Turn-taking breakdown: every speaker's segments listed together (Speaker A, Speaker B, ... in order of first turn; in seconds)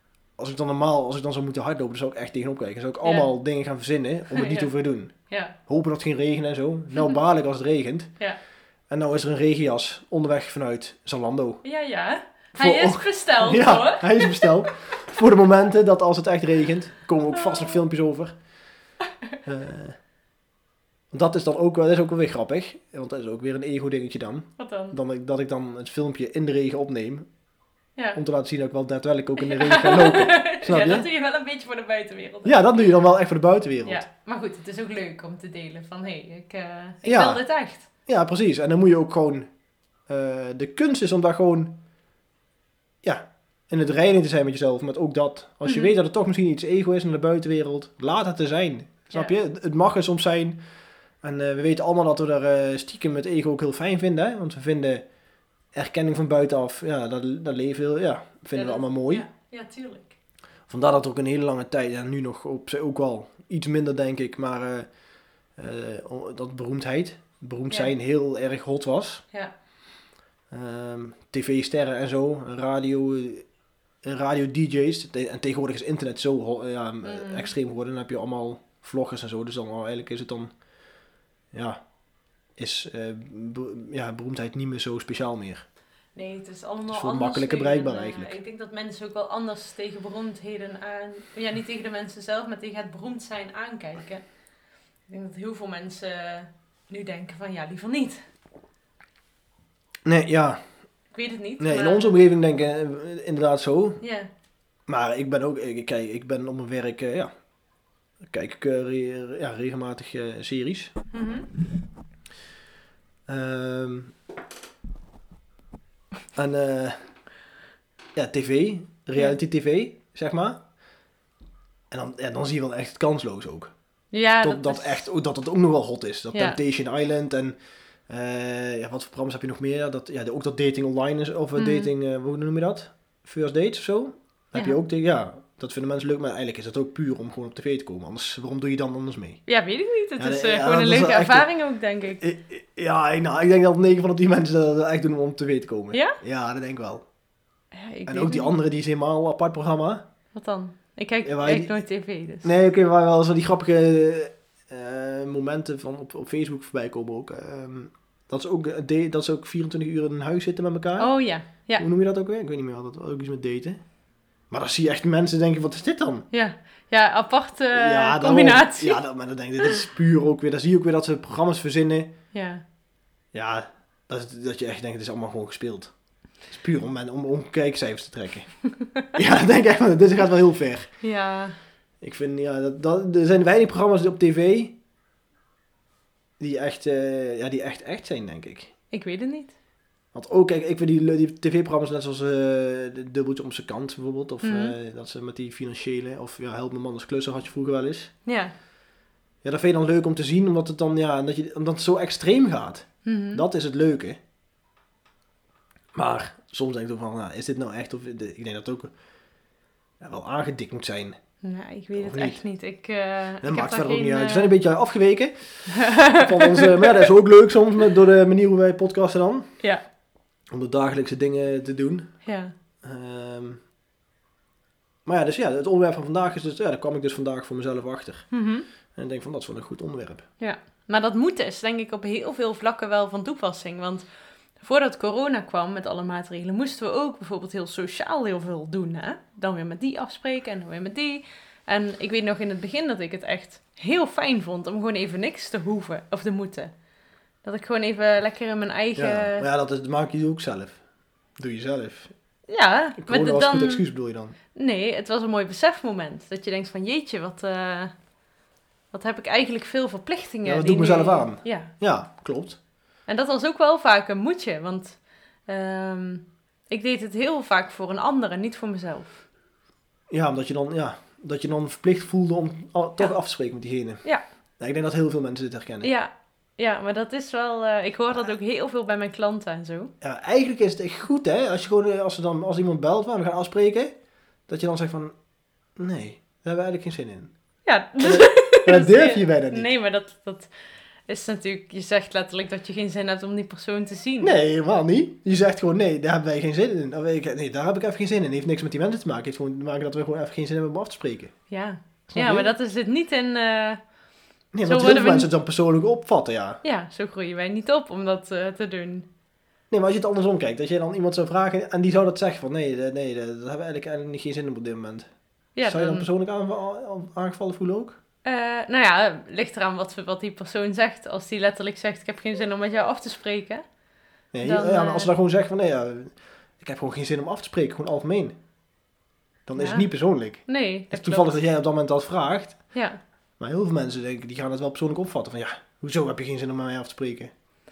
Speaker A: 0.4-5.1, 5.7-8.1, 8.9-11.6, 12.6-18.4, 19.4-20.0, 21.1-27.3, 28.1-31.1, 32.4-34.0, 37.0-37.4, 38.0-39.5, 40.1-41.8, 43.0-50.6, 51.2-55.0, 55.7-59.2, 60.7-64.9, 65.5-69.2, 70.5-73.5, 74.0-80.5, 81.5-81.8, 82.6-85.7, 86.9-88.3, 100.0-100.6, 101.6-104.0, 104.9-107.3, 108.2-110.9, 113.3-114.1, 116.3-117.1, 118.1-120.6, 121.9-123.7, 124.4-127.5, 128.1-139.4, 140.2-141.5, 142.2-147.0, 148.1-150.0, 151.2-151.7, 152.4-163.8, 164.5-166.3, 167.7-172.1, 173.3-175.9, 176.4-180.9, 182.0-184.8, 186.4-188.7, 190.1-198.1, 199.4-204.2, 205.9-208.9, 210.0-211.2, 211.9-212.4, 213.4-219.5, 220.5-222.2, 222.8-223.6, 225.0-228.3, 228.9-230.2, 248.9-250.8, 251.4-252.1, 253.0-254.3, 260.4-262.6, 270.1-274.0, 274.6-275.9, 280.0-283.9, 284.5-285.1, 285.8-287.3, 288.0-289.7, 294.2-301.4, 302.1-302.5, 304.5-306.6, 309.7-315.1, 315.6-318.0, 324.3-328.4, 329.5-332.6, 333.4-337.3
Speaker B: 3.0-3.3, 4.3-4.7, 5.3-5.5, 11.6-14.7, 17.3-17.8, 24.6-24.9, 29.4-32.6, 33.8-37.9, 45.6-45.9, 58.5-60.1, 77.0-77.5, 86.1-94.2, 95.1-98.2, 101.1-102.2, 104.0-104.3, 111.1-111.5, 124.1-125.0, 126.3-126.6, 131.6-131.9, 139.5-142.2, 145.9-146.2, 147.7-148.5, 150.3-152.5, 161.0-161.8, 166.3-169.0, 172.3-172.6, 178.8-179.1, 181.0-181.6, 188.9-189.5, 194.4-194.7, 198.2-198.5, 203.0-203.4, 211.4-214.5, 215.7-217.0, 222.2-222.5, 228.3-228.7, 230.4-234.1, 234.6-246.7, 247.4-249.4, 252.5-253.8, 254.5-257.9, 258.9-261.7, 263.1-269.2, 275.8-279.9, 287.6-290.5, 291.1-294.3, 301.5-303.8, 304.6-305.3, 306.6-309.1, 315.6-316.1, 318.2-323.6, 324.4-325.1, 329.6-331.4, 332.7-333.0